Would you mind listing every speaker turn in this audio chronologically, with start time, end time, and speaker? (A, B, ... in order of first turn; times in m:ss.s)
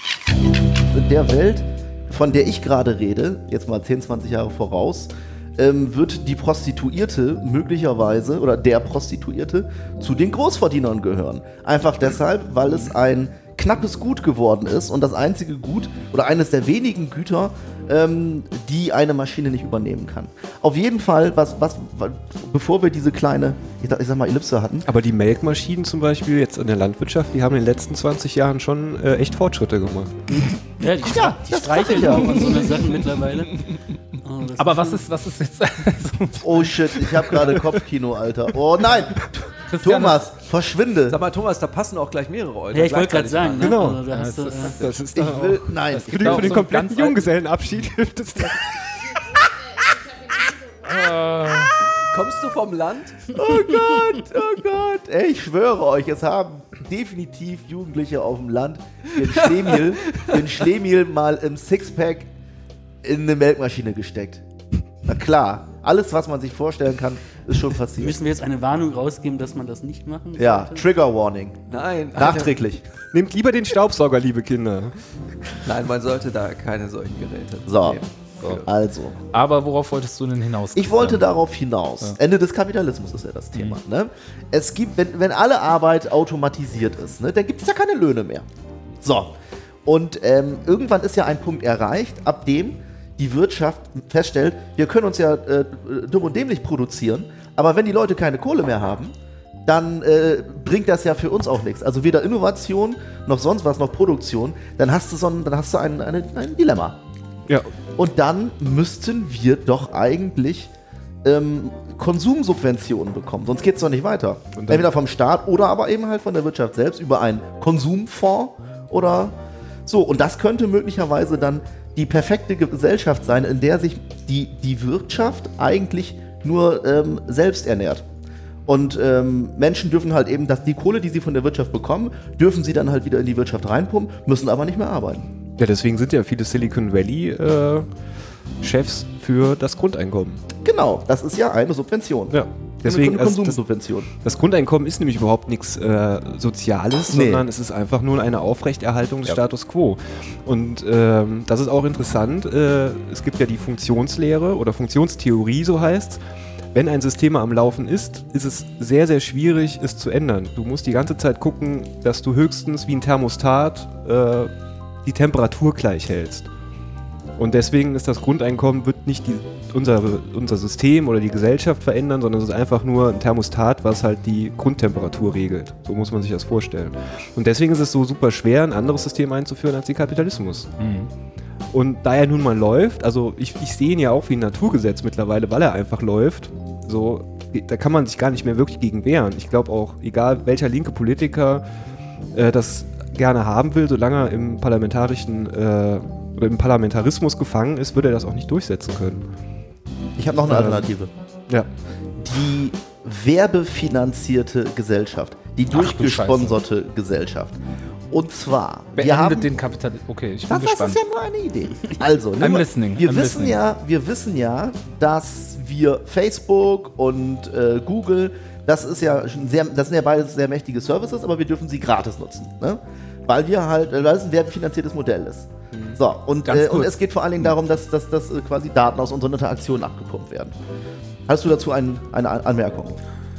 0:00.9-0:24.9 A
0:24.9-0:30.4 B
0:30.3-0:33.6 C
0:30.9-0:32.7 A
0:34.2-0:35.0 C
0:34.6-0:37.3 D
0:36.4-0:41.2 A
0:37.3-0:37.7 B
0:39.6-0:40.3 D
0:41.1-0:43.7 E
0:42.7-0:44.8 C
0:43.6-0:44.0 B
0:44.0-0:44.8 D
0:44.8-0:49.4 B
0:45.1-0:46.6 A
0:45.9-0:47.3 D
0:50.8-0:51.8 D
0:52.0-0:53.4 E
0:53.3-1:02.3 A
0:59.2-1:00.5 E
1:03.0-1:04.4 A
1:05.1-1:08.2 A
1:08.0-1:10.9 C
1:10.4-1:11.6 A
1:11.7-1:12.6 E
1:12.1-1:12.8 A
1:13.1-1:15.0 B
1:15.6-1:18.7 E
1:17.6-1:18.0 A
1:18.6-1:19.2 A
1:19.3-1:21.4 D
1:20.8-1:28.5 A
1:29.0-1:39.1 A
1:39.7-1:47.0 A
1:48.0-1:50.7 A
1:51.2-1:59.4 A
1:54.6-1:54.9 B
1:59.9-2:08.0 A
2:08.7-2:15.3 A
2:15.6-2:17.9 B
2:18.6-2:20.4 B
2:20.6-2:24.1 A
2:22.3-2:23.6 B
2:24.2-2:36.2 B
2:27.1-2:27.5 A
2:36.7-2:44.5 B
2:45.0-2:46.5 B
2:47.4-3:00.7 B
3:00.8-3:01.1 D
3:01.7-3:11.6 B
3:12.4-3:19.2 B
3:20.2-3:21.1 A
3:20.5-3:20.9 B
3:22.2-3:27.6 A
3:25.7-3:26.6 D
3:28.1-3:29.5 A
3:29.0-3:31.0 D
3:30.5-3:50.6 A
3:32.4-3:33.6 D
3:46.5-3:47.5 D
3:51.3-3:53.0 A